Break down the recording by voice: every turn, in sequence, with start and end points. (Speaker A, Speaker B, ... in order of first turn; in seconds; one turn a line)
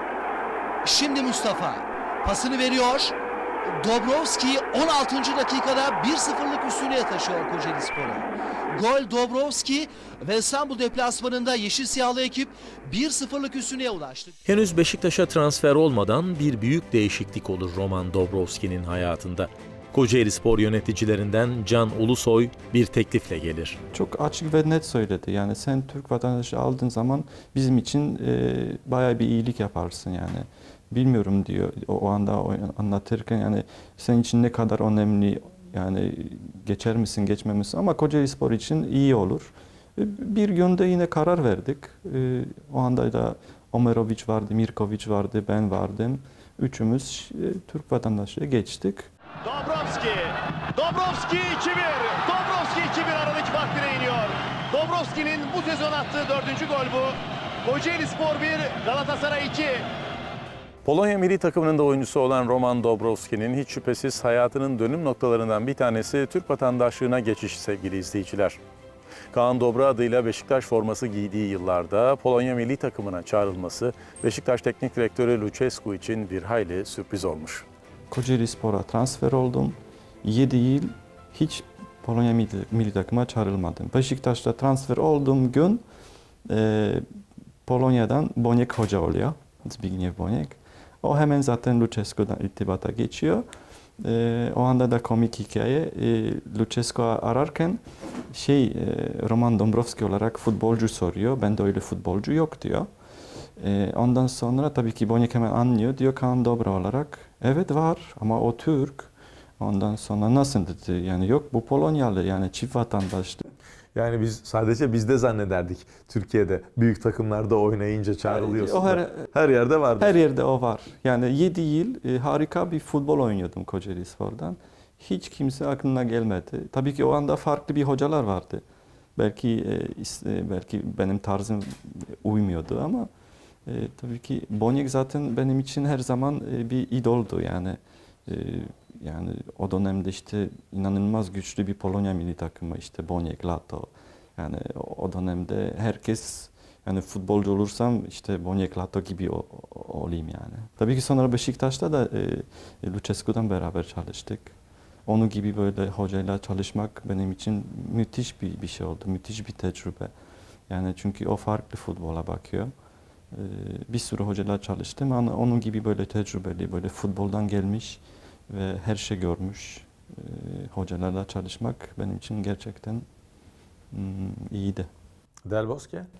Speaker A: 0.8-14.3
Speaker B: 14.4-23.8
Speaker C: 23.9-49.1
Speaker D: 49.4-59.9
Speaker B: 60.8-68.6
Speaker B: 69.3-77.7
Speaker C: 78.1-85.8
Speaker C: 86.5-87.0
Speaker C: 87.7-93.4
Speaker C: 94.0-102.9
Speaker C: 103.6-113.4
Speaker E: 114.7-120.1
Speaker C: 118.2-119.3
Speaker C: 120.0-128.6
Speaker C: 129.2-133.1
Speaker C: 133.7-154.5
Speaker C: 155.1-160.1
Speaker C: 160.7-162.7
Speaker C: 163.3-173.0
Speaker C: 173.9-174.9